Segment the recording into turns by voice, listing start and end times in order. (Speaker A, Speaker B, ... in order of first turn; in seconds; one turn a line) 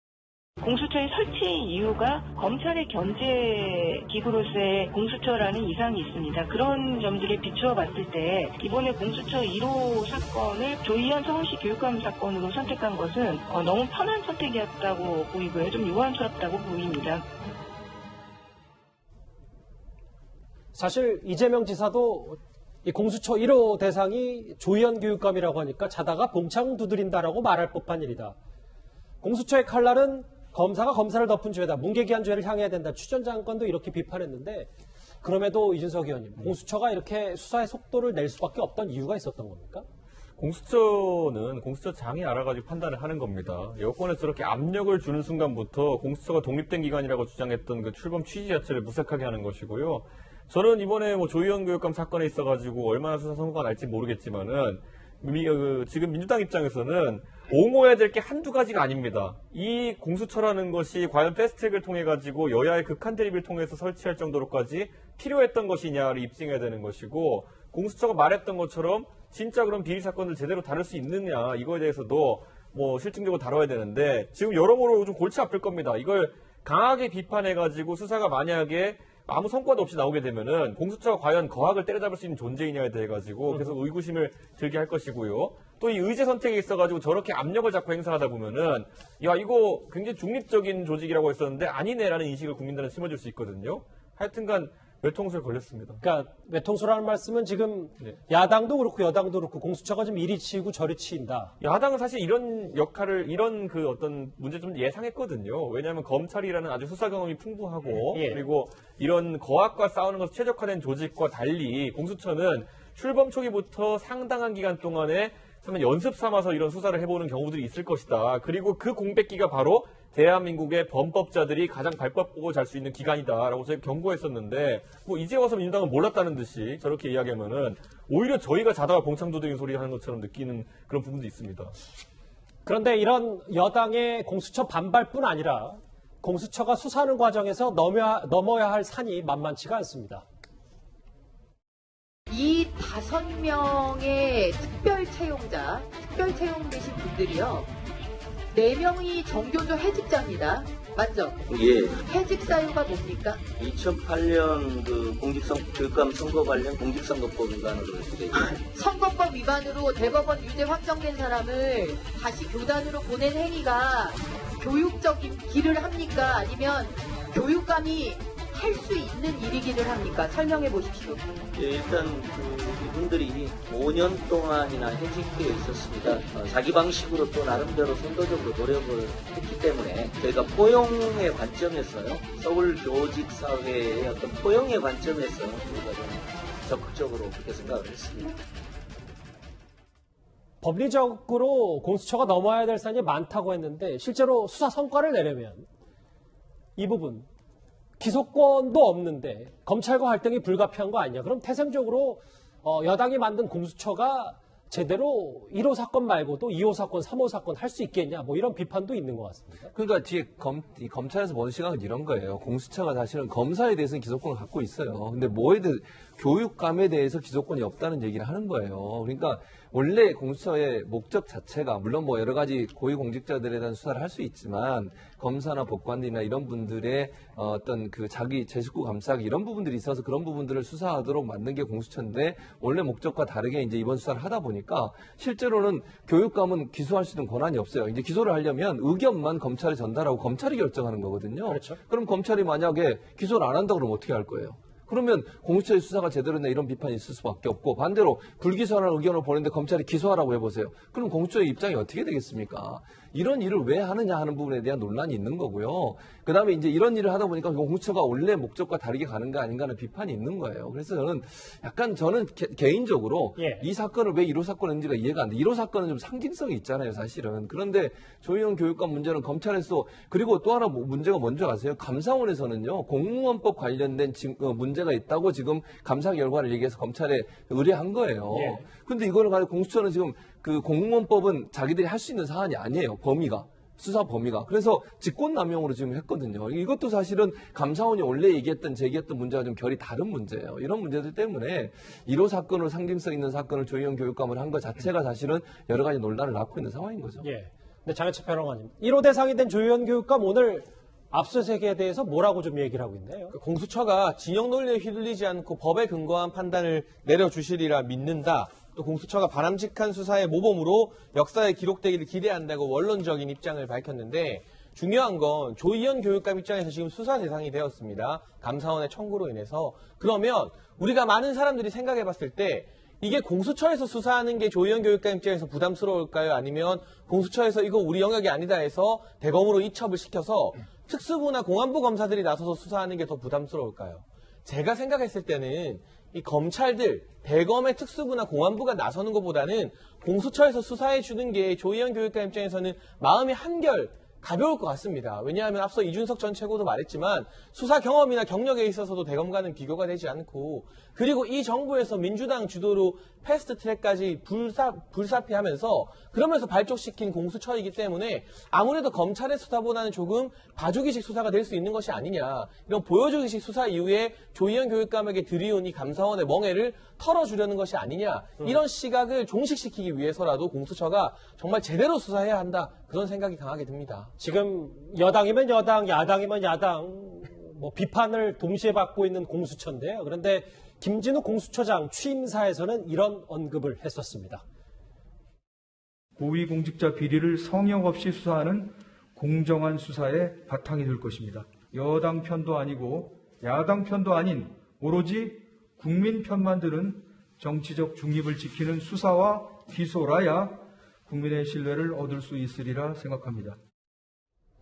Speaker A: 0.6-17.2
Speaker B: 20.7-28.4
Speaker B: 29.2-34.7
Speaker B: 35.2-39.9
Speaker C: 40.4-96.0
Speaker B: 96.0-101.5
Speaker C: 101.6-131.7
Speaker B: 108.1-108.4
Speaker B: 132.6-140.2
Speaker D: 142.3-147.7
Speaker D: 148.5-153.4
Speaker E: 151.5-152.0
Speaker E: 153.6-158.3
Speaker D: 158.3-171.3
Speaker E: 171.5-188.4
Speaker B: 190.6-195.7
Speaker B: 196.8-197.3
Speaker B: 198.0-209.7
Speaker F: 209.7-297.2
Speaker B: 241.5-241.8
Speaker B: 263.4-263.6
Speaker B: 278.3-278.6
Speaker B: 297.2-303.3
Speaker G: 303.3-374.1
Speaker B: 374.2-384.4
Speaker H: 386.2-403.6